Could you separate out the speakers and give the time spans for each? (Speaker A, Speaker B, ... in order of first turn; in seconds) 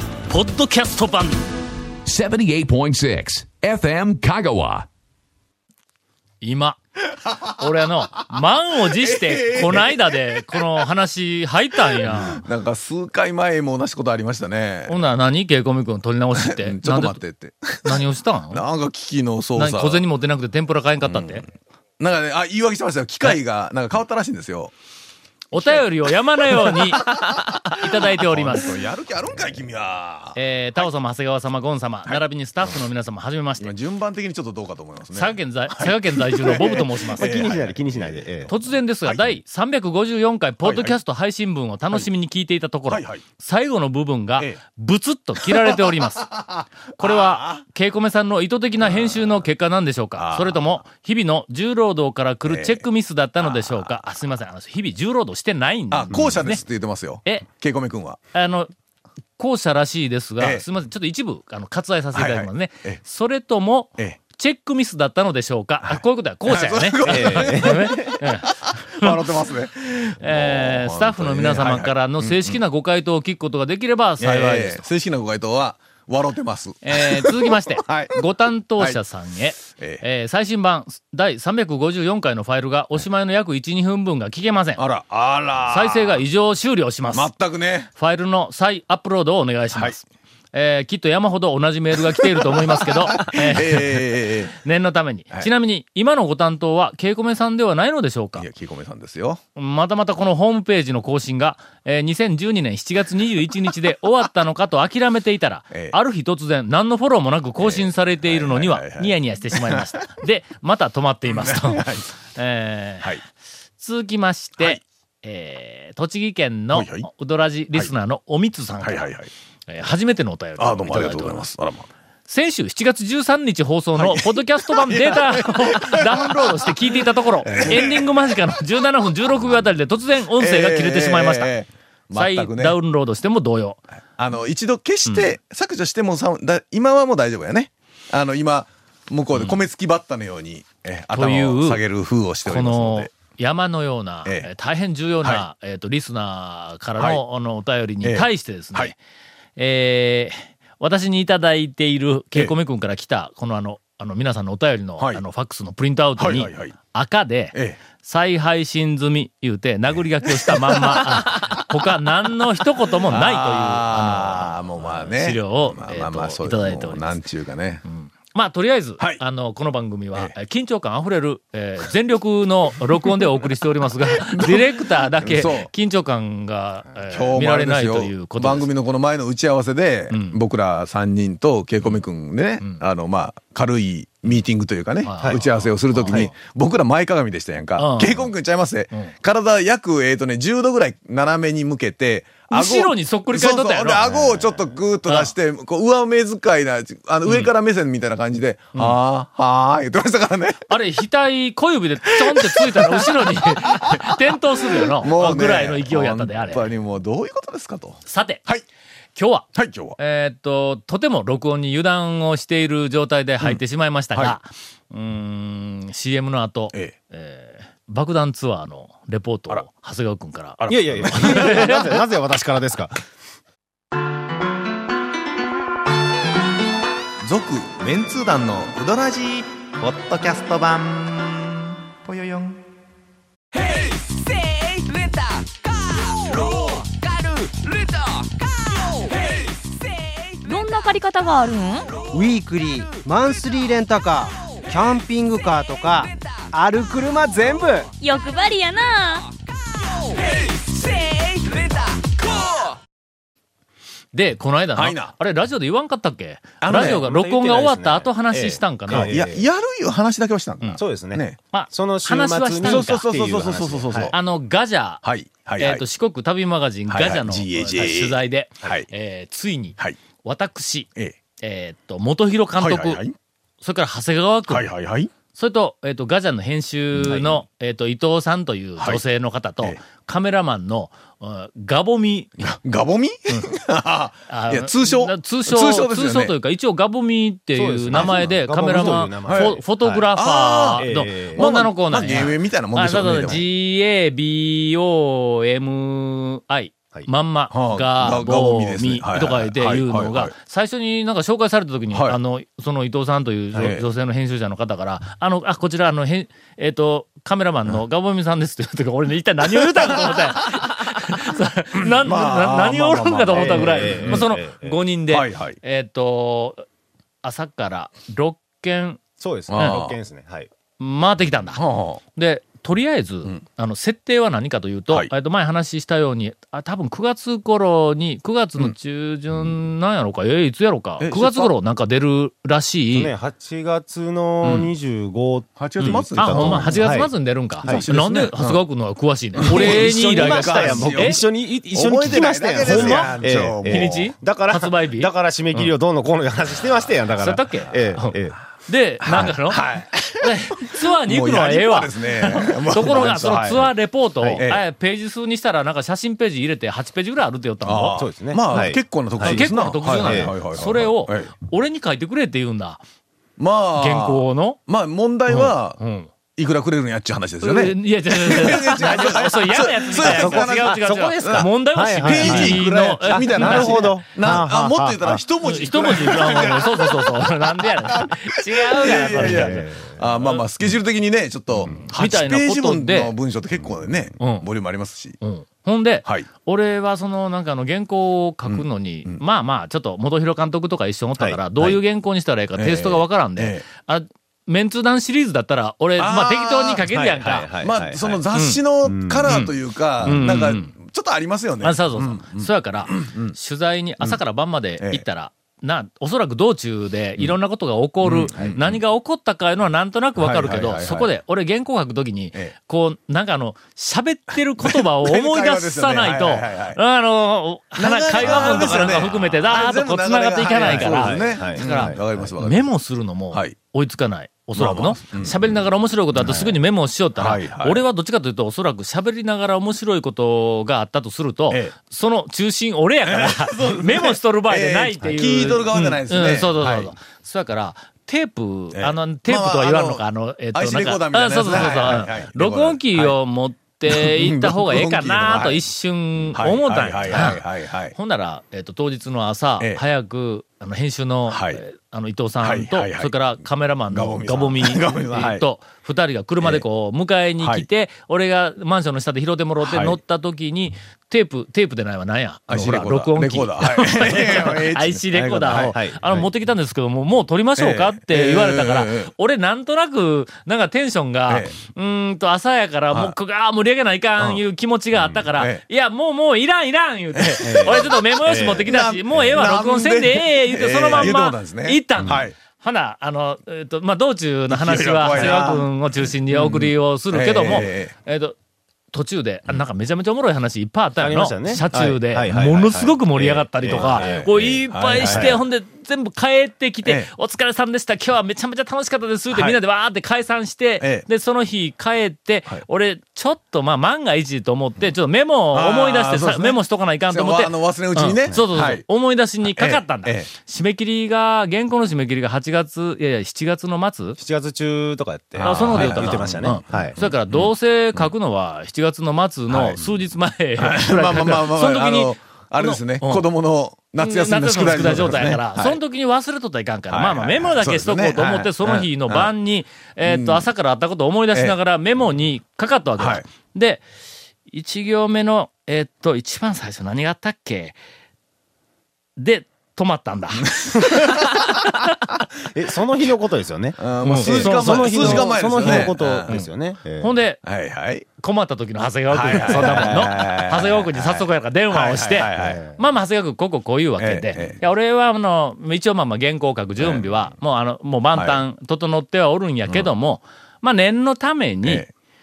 Speaker A: 0.3-1.4, 6.4-6.8, 7.5-12.4, 14.9-17.2, 17.8-18.6, 19.6-21.4, 25.5-28.8, 30.3-33.7, 35.1-37.4, 38.5-46.3, 47.0-56.6, 58.3-58.7, 59.4-69.3, 70.0-74.8, 76.8-84.8, 85.7-87.3, 88.0-98.5, 99.5-113.2, 113.8-119.1, 119.7-121.5, 122.3-131.5, 132.1-133.8, 141.1-141.8, 142.4-149.0, 149.6-167.2, 167.8-178.7, 180.1-180.4, 185.0-186.3, 187.8-188.3, 192.5-195.3, 197.2-197.5, 200.7-206.7, 208.1-208.4, 209.1-209.5, 210.0-221.8, 254.1-259.1, 261.5-263.0, 264.1-265.0, 265.6-270.9, 271.4-273.0, 273.6-274.7, 275.3-282.4, 284.3-316.6, 317.2-319.0, 319.6-319.8, 320.8-321.6, 322.1-333.1, 335.8-341.2, 342.6-345.7, 347.1-349.6, 350.2-358.0, 359.2-362.8, 363.8-364.6, 365.3-366.1, 367.4-374.0, 375.4-380.4, 381.7-383.1, 384.2-384.4, 385.2-397.5, 398.3-398.6, 399.2-399.5, 400.0-400.7, 401.6-447.4, 447.9-488.3, 488.9-514.2, 515.4-523.2, 524.0-533.8, 534.5-537.8, 539.2-541.4, 544.0-546.5, 547.0-547.4, 548.2-561.8
Speaker B: 2.0-4.9
Speaker C: 7.3-7.5, 9.0-10.8, 11.9-15.0, 16.4-20.0, 21.1-21.4, 22.0-24.7, 26.5-30.4, 33.6-38.5, 39.1-39.3, 40.6-41.0, 42.9-43.2, 45.4-47.6, 48.8-49.4, 50.2-50.7, 52.5-52.8, 53.4-53.9, 55.9-58.2, 60.4-60.6, 62.1-63.0, 65.8-72.6, 74.2-78.2, 79.7-80.0, 84.8-86.2, 87.1-87.9, 92.1-94.5, 98.4-99.4, 107.6-110.0, 111.3-112.0, 116.7-117.0, 118.8-119.3, 120.6-121.9, 124.0-128.5, 130.4-132.8, 134.2-143.1, 148.0-148.9, 156.2-156.7, 160.4-161.6, 163.1-167.8, 174.1-175.7, 177.1-200.7, 202.1-204.2, 204.8-208.6, 209.5-210.0, 220.6-221.8, 227.2-232.6, 254.8-255.1, 256.6-257.0, 258.9-261.4, 262.6-264.1, 265.0-265.8, 266.9-268.9, 272.6-273.1, 274.5-275.1, 277.0-277.4, 282.4-286.3, 287.9-293.4, 297.5-300.3, 301.9-302.2, 303.6-303.8, 311.8-314.3, 315.1-315.6, 319.5-320.0, 321.6-322.0, 331.0-331.5, 334.4-334.7, 335.6-336.8, 337.6-338.6, 339.4-344.1, 349.0-353.7, 357.6-361.3, 363.4-365.8, 366.3-385.2, 388.5-389.2, 392.6-393.6, 396.0-403.4, 408.0-408.8, 410.2-411.1, 414.6-416.8, 417.8-422.7, 424.6-425.5, 427.2-427.8, 433.0-436.9, 438.7-440.0, 440.5-443.1, 443.9-445.6, 446.3-447.9, 451.3-451.6, 452.4-453.1, 453.9-455.4, 457.4-457.7, 459.6-460.0, 462.5-465.7, 467.6-469.1, 471.3-471.6, 475.0-475.6, 477.2-482.3, 484.5-485.7, 486.3-487.9, 493.7-495.4, 496.8-497.1, 499.3-499.6, 500.8-501.1, 505.5-506.6, 507.1-508.8, 509.5-510.3, 515.4-518.1, 519.5-519.9, 520.6-525.8, 526.9-529.3, 530.0-530.5, 533.0-533.2, 540.4-541.4, 543.8-546.4, 547.4-548.0, 549.1-552.6, 554.0-554.6, 556.8-557.1, 558.1-558.4, 561.6-561.9
Speaker D: 37.1-38.5, 67.0-68.1, 220.7-222.9, 256.7-259.5, 260.8-264.1, 287.5-290.0, 290.8-291.5, 313.3-314.8, 319.2-320.5, 332.9-337.1, 337.6-337.9, 339.4-348.4, 352.8-353.6, 357.9-360.3, 368.8-375.2, 378.8-380.0, 391.2-391.8, 397.2-398.2, 398.8-399.3, 418.2-419.1, 420.6-422.3, 426.1-426.6, 465.7-466.3, 477.4-478.7, 491.0-495.4, 514.2-517.0, 542.4-547.1, 552.3-552.8
Speaker E: 240.4-241.9, 248.0-249.3
Speaker F: 242.1-247.9